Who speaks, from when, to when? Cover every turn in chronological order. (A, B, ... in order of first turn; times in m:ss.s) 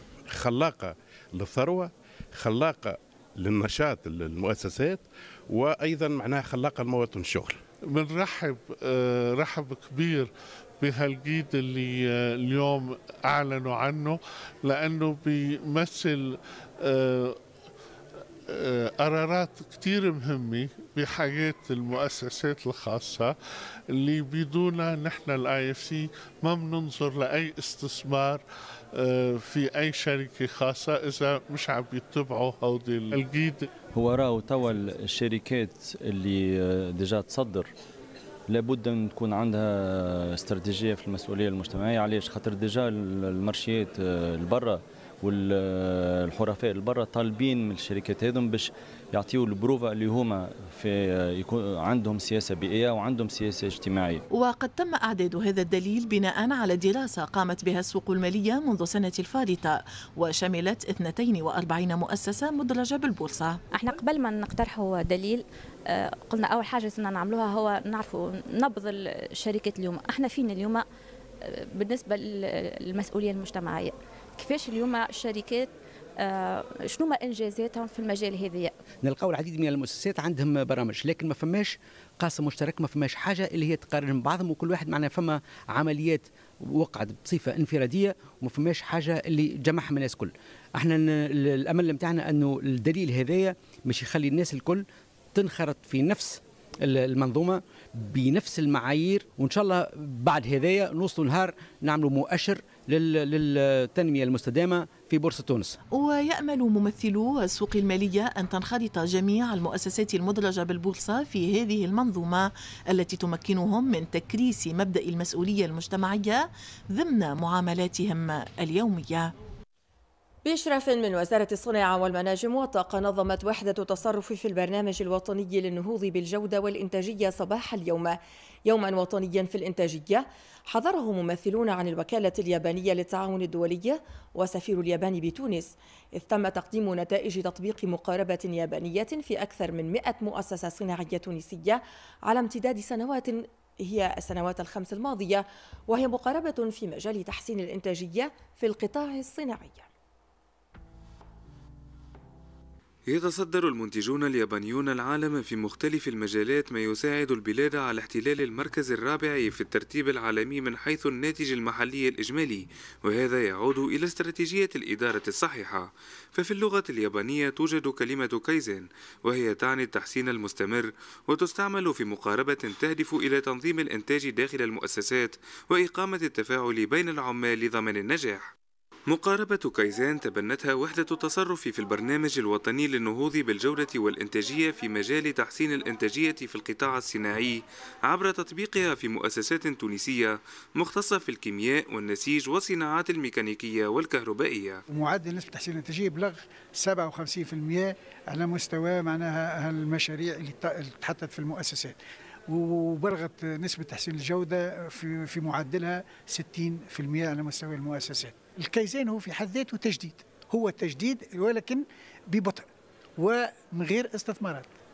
0:00.3-0:07.6 A
0:07.8-0:17.4 B
0:18.5-0:23.3 B
0:23.9-0:33.7 B
0:33.9-0:37.7 C
0:38.5-0:54.2 C
0:54.3-1:03.6 D
1:03.7-1:10.8 E
1:11.5-1:18.7 E
1:19.0-1:45.8 F
1:45.9-1:56.4 D
1:56.9-1:59.3 D
2:00.4-2:29.9 G
2:33.1-2:58.4 H
2:59.1-3:14.8 H
3:14.9-3:32.6 I
3:33.2-3:34.7 I